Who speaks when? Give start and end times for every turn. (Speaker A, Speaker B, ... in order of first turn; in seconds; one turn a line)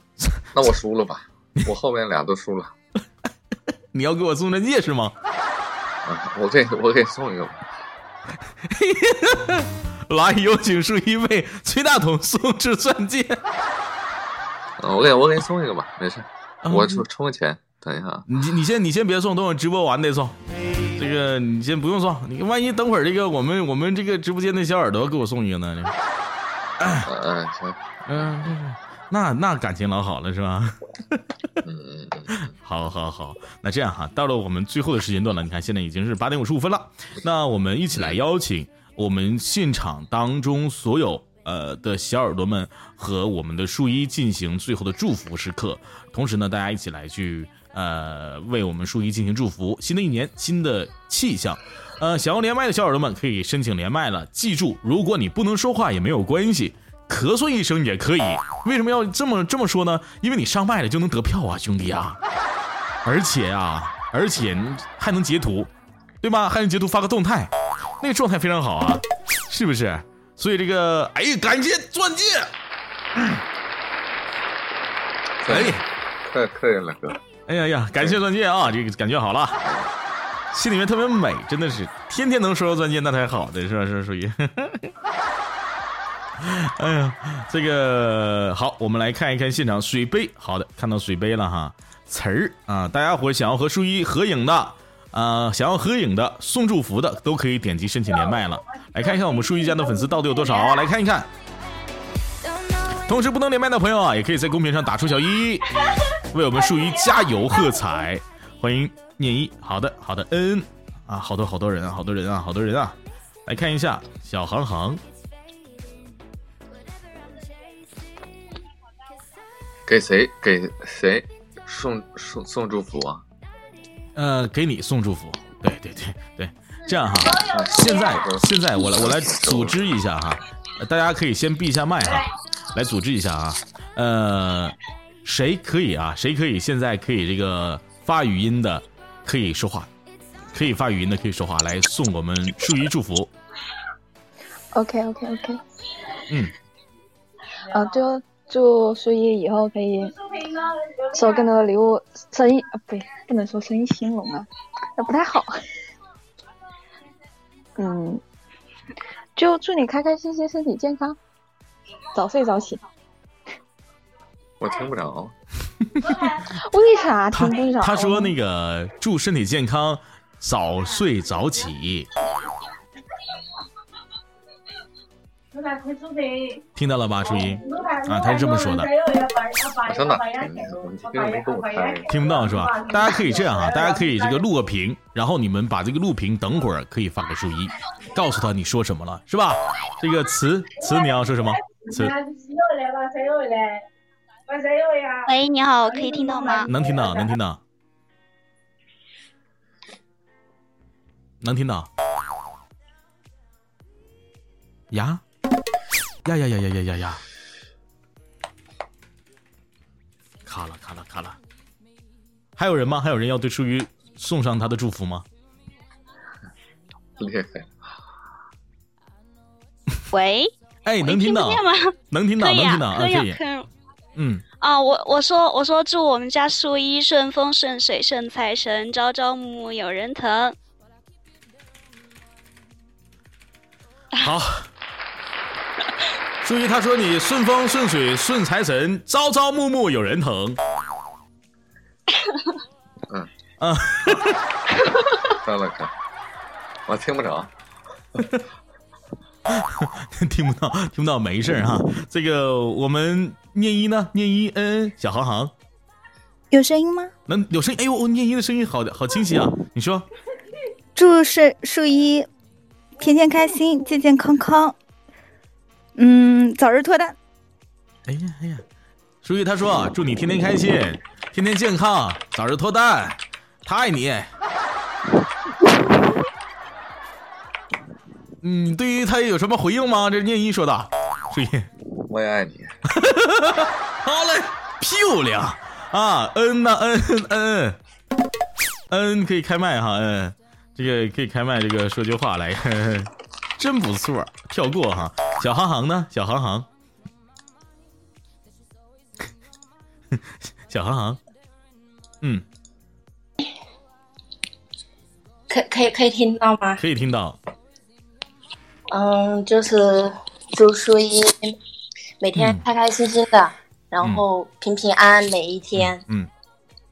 Speaker A: 0.5-2.7
Speaker B: 3.9-5.1
Speaker A: 6.0-7.6
Speaker B: 8.7-13.4
Speaker A: 14.8-18.2
Speaker B: 16.6-17.1
Speaker B: 18.3-20.4
Speaker B: 20.9-25.9
Speaker B: 26.8-27.1
Speaker A: 27.1-27.8
Speaker B: 28.1-31.2
Speaker A: 31.6-32.5
Speaker B: 32.5-62.2
Speaker B: 63.0-65.7
Speaker B: 66.2-72.5
Speaker A: 75.4-77.2
Speaker B: 75.5-75.8
Speaker B: 77.5-79.6
Speaker A: 79.6-79.9
Speaker B: 80.5-84.9
Speaker B: 86.4-101.3
Speaker B: 103.0-105.7
Speaker B: 106.3-115.0
Speaker A: 119.9-123.2
Speaker B: 124.2-139.9
Speaker A: 127.3-129.8
Speaker B: 140.5-143.3
Speaker C: 144.7-145.6
Speaker C: 147.7-150.2
Speaker C: 151.1-155.5
Speaker C: 157.8-158.2
Speaker C: 159.3-161.2
Speaker C: 162.1-162.8
Speaker A: 164.6-165.3
Speaker C: 166.7-168.3
Speaker B: 167.3-172.1
Speaker B: 176.8-178.9
Speaker A: 179.8-182.1
Speaker B: 182.1-192.1
Speaker D: 195.2-196.7
Speaker B: 196.7-197.6
Speaker B: 201.4-201.9
Speaker B: 204.9-205.2
Speaker B: 206.2-207.2
Speaker B: 210.4-211.4
Speaker B: 212.6-215.2
Speaker A: 217.2-217.7
Speaker D: 220.1-223.7
Speaker B: 220.8-223.4
Speaker B: 224.2-224.4
Speaker D: 224.6-230.6
Speaker B: 234.2-234.7
Speaker B: 236.4-240.6
Speaker B: 243.6-244.4
Speaker A: 245.4-245.9
Speaker A: 246.9-247.5
Speaker B: 249.5-255.5
Speaker E: 256.5-257.1
Speaker B: 257.3-260.1
Speaker E: 260.9-262.3
Speaker E: 263.0-264.7
Speaker E: 265.9-267.1
Speaker B: 268.1-268.6
Speaker B: 269.2-274.3
Speaker B: 278.4-281.7
Speaker A: 282.1-282.7
Speaker B: 282.9-287.8
Speaker B: 288.9-296.7
Speaker B: 300.7-301.2
Speaker F: 305.5-306.8
Speaker B: 306.8-307.4
Speaker F: 308.9-311.5
Speaker F: 312.2-316.0
Speaker B: 312.3-312.6
Speaker B: 315.7-316.3